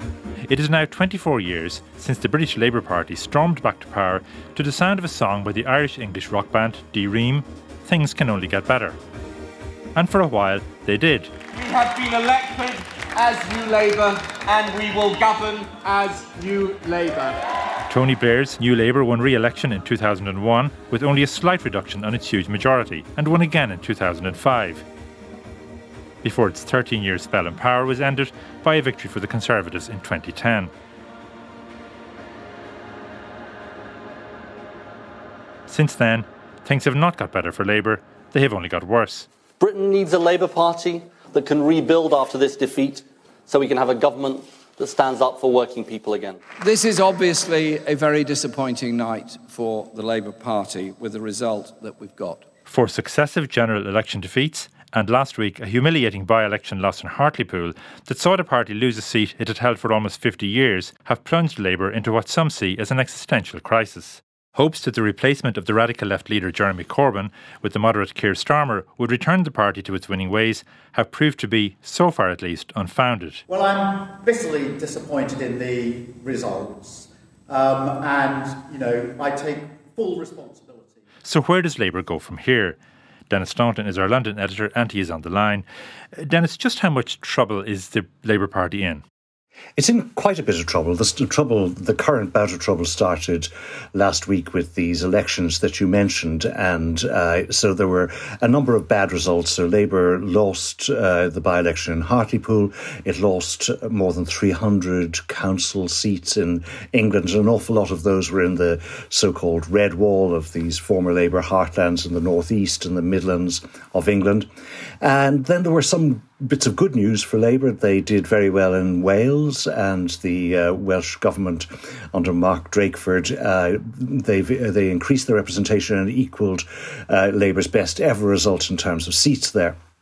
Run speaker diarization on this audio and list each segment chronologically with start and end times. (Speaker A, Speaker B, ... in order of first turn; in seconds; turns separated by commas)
Speaker A: 0.5-9.0, Speaker A: 9.9-11.3, Speaker B: 11.5-17.5, Speaker A: 17.9-24.8, Speaker A: 26.2-30.7, Speaker A: 35.7-39.3, Speaker C: 39.6-46.4, Speaker D: 46.6-52.5, Speaker A: 52.7-73.4, Speaker E: 73.5-80.9, Speaker A: 81.2-82.8, Speaker A: 83.3-89.0, Speaker F: 89.8-114.5, Speaker F: 115.0-129.8